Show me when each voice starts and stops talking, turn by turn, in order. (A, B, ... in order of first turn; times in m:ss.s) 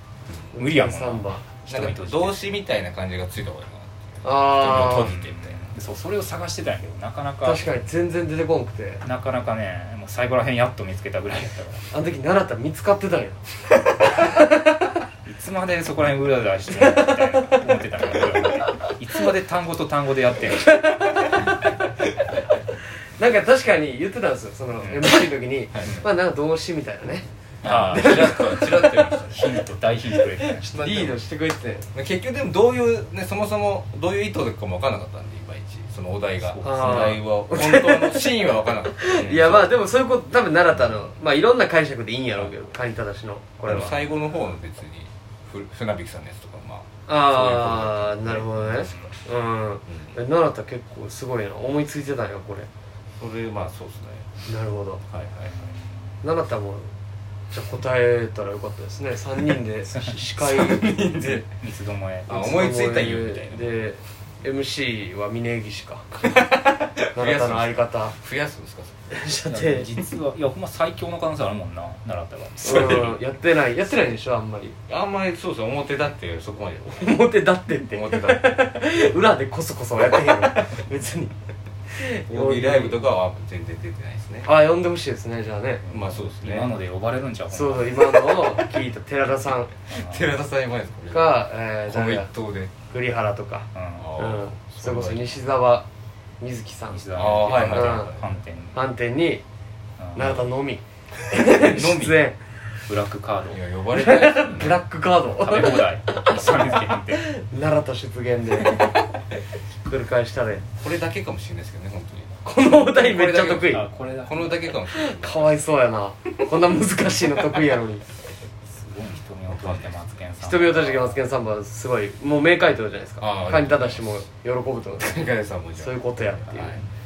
0:00.5-0:01.4 A
0:00.6-0:02.4 B
0:01.7-0:05.6 C
0:04.2-0:05.1 A
0:04.6-0:07.8 B
0:07.4-0:09.0 A
0:09.0-0:11.8 B
0:11.9-0:14.9 A
0:15.2-0:20.9 B
0:16.7-0:17.2 A
0:23.2-0:28.8 A
0:24.8-0:26.0 C
0:27.6-0:30.8 B
0:27.6-0:29.6 C
0:30.6-0:31.8 A
0:30.7-0:31.2 C
0:31.9-0:39.7 C
0:36.4-0:37.2 B
0:36.6-0:44.0 A
0:43.6-0:49.1 C
0:47.1-0:52.7 A
0:49.9-0:50.2 C
0:53.2-0:54.3 C
0:54.4-0:55.0 A
0:55.1-0:55.7 C
0:56.2-0:56.9 A
0:57.5-1:01.0 A
0:59.8-1:02.6 B
1:00.4-1:01.4 C
1:02.3-1:03.9 C
1:02.3-1:06.3 A
1:06.2-1:09.1 C
1:07.1-1:08.2 A
1:09.1-1:09.9 A
1:09.4-1:13.2 B
1:12.6-1:14.8 A
1:14.9-1:17.2 C
1:16.9-1:21.3 A
1:17.9-1:18.8 C
1:21.9-1:23.0 A
1:22.3-1:24.5 C
1:24.4-1:25.8 A
1:25.8-1:28.0 B
1:25.9-1:26.7 C
1:27.5-1:29.7 A
1:29.9-1:30.3 B
1:29.9-1:32.7 C
1:31.1-1:32.3 A
1:32.9-1:35.8 A
1:33.7-1:34.1 B
1:34.0-1:35.4 C
1:36.4-1:38.1 A
1:36.9-1:38.8 B
1:37.1-1:38.3 C
1:38.7-1:39.4 A
1:40.0-1:40.4 B
1:40.1-1:42.4 A
1:41.3-1:42.2 C
1:42.9-1:43.6 B
1:43.5-1:44.8 C
1:43.9-1:45.9 A
1:45.4-1:47.2 B
1:47.2-1:49.0 A
1:49.8-1:50.6 A
1:50.8-1:55.6 C
1:52.4-1:53.8 A
1:53.2-1:54.8 B
1:54.9-1:58.0 A
1:58.7-2:01.1 B
1:59.5-1:59.9 C
2:00.4-2:05.2 A
2:03.2-2:04.1 C
2:04.9-2:06.8 C
2:05.8-2:06.8 A